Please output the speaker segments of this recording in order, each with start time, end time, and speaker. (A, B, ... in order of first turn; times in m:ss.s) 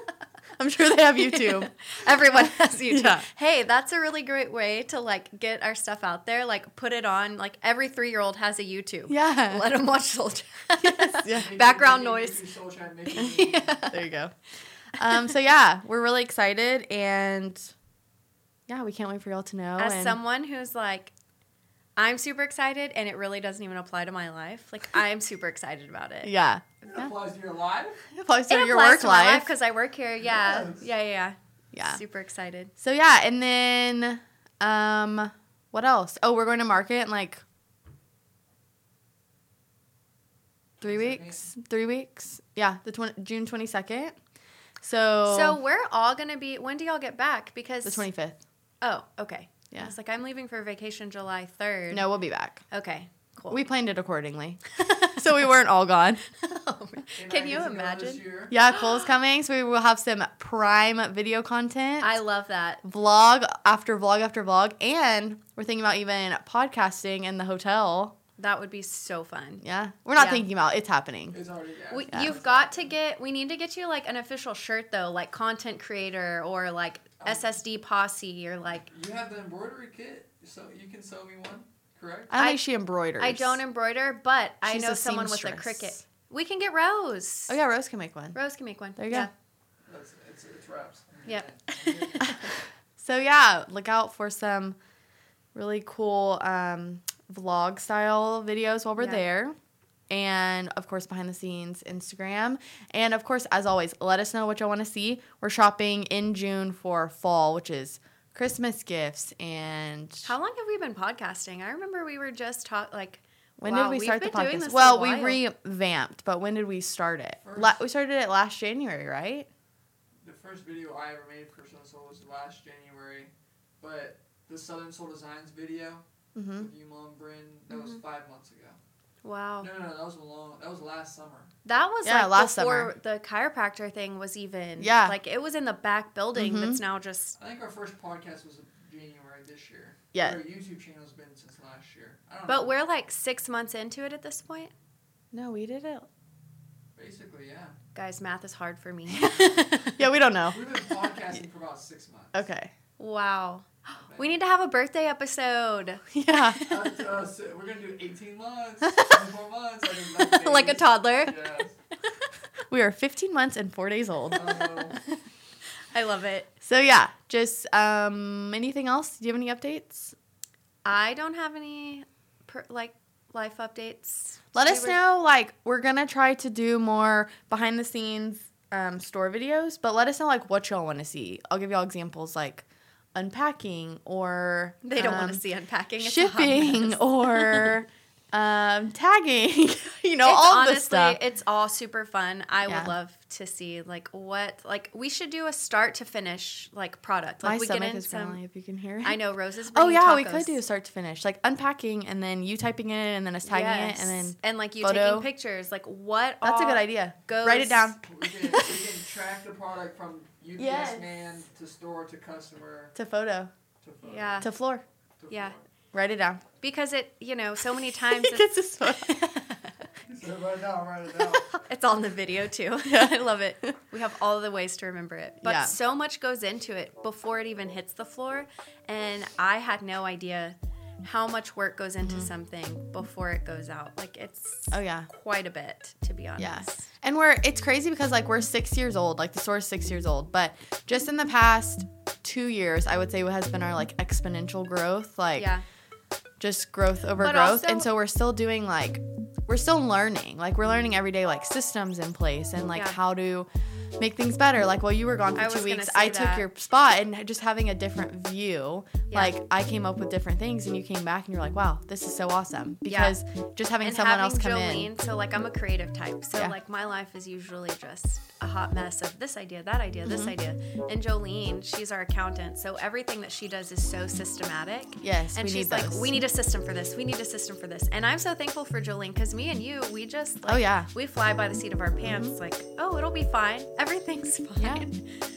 0:00.6-0:03.2 A
0:01.1-0:12.5 B
0:09.1-0:09.7 A
0:10.8-0:11.5 A
0:11.3-0:13.8 C
0:13.1-0:14.1 B
0:13.8-0:14.3 A
0:15.0-0:17.7 A
0:15.0-0:15.3 B
0:18.7-0:20.2 A
0:19.8-0:21.1 B
0:22.0-0:26.3 B
0:26.2-0:27.1 A
0:26.8-0:28.0 C
0:28.1-0:29.5 A
0:28.5-0:32.7 B
0:30.2-0:30.8 C
0:31.7-0:32.0 A
0:32.8-0:37.4 A
0:40.8-0:44.2 A
0:40.8-0:41.4 C
0:44.8-0:45.6 A
0:45.2-0:48.1 B
0:47.8-0:48.4 A
0:48.8-0:52.1 B
0:51.9-0:52.6 A
0:52.7-0:53.6 B
0:53.5-0:56.2 A
0:54.8-0:55.1 B
0:56.4-0:58.5 B
0:57.2-0:58.5 C
0:58.5-1:02.2 A
1:02.0-1:02.8 B
1:02.8-1:08.1 A
1:08.4-1:09.6 B
1:09.6-1:11.4 A
1:10.1-1:10.4 B
1:11.3-1:12.9 C
1:11.9-1:18.8 B
1:17.2-1:17.4 C
1:18.9-1:22.3 C
1:22.3-1:22.6 B
1:22.3-1:23.6 A
1:23.2-1:27.6 B
1:24.6-1:26.0 A
1:27.5-1:28.4 A
1:28.3-1:29.3 B
1:29.0-1:29.3 A
1:29.8-1:32.3 C
1:31.2-1:32.5 B
1:33.0-1:34.8 A
1:35.5-1:39.6 A
1:39.0-1:39.2 B
1:40.1-1:50.3 A
1:50.2-1:55.4 B
1:53.6-1:59.5 A
1:57.4-1:57.8 C
2:00.2-2:08.8 C
2:06.3-2:06.7 A
2:07.7-2:08.0 B
2:09.2-2:09.7 B
2:09.6-2:11.5 C
2:11.6-2:17.4 B
2:12.0-2:12.9 A
2:14.8-2:15.2 A
2:16.3-2:16.8 A
2:17.4-2:22.7 C
2:20.1-2:20.4 A
2:22.5-2:24.7 B
2:25.3-2:26.1 A
2:27.0-2:27.7 C
2:27.9-2:30.0 B
2:30.0-2:30.6 A
2:30.5-2:32.4 C
2:32.3-2:32.7 A
2:33.0-2:36.8 B
2:34.0-2:34.4 C
2:36.1-2:36.6 A
2:36.6-2:41.7 C
2:40.0-2:41.6 B
2:42.7-2:44.5 A
2:44.3-2:45.0 C
2:45.9-2:46.5 B
2:46.6-2:50.1 A
2:50.8-2:55.0 B
2:54.5-3:05.4 A
3:04.8-3:07.8 B
3:06.0-3:11.2 A
3:10.2-3:18.4 B
3:12.6-3:12.9 A
3:17.4-3:25.3 A
3:19.0-3:20.6 B
3:23.4-3:28.0 B
3:26.4-3:28.7 A
3:28.0-3:32.9 C
3:30.6-3:31.1 A
3:32.9-3:33.5 A
3:33.8-3:34.5 C
3:34.0-3:34.5 B
3:34.4-3:34.8 A
3:35.2-3:35.6 C
3:35.3-3:35.6 B
3:35.9-3:36.4 A
3:36.6-3:38.5 B
3:38.1-3:39.5 A
3:40.1-3:41.4 C
3:41.5-3:56.9 B
3:42.9-3:43.8 A
3:45.4-3:45.8 A
3:52.0-3:52.3 A
3:54.7-3:55.1 A
3:56.4-4:05.5 A
4:05.3-4:05.6 B
4:06.4-4:24.9 A
4:07.2-4:07.9 B
4:15.3-4:16.5 B
4:19.1-4:19.4 B
4:22.8-4:23.2 B
4:23.8-4:45.0 B
4:30.0-4:30.3 A
4:35.0-4:36.2 A
4:40.4-4:40.9 A
4:42.0-4:42.4 A
4:44.6-4:44.9 A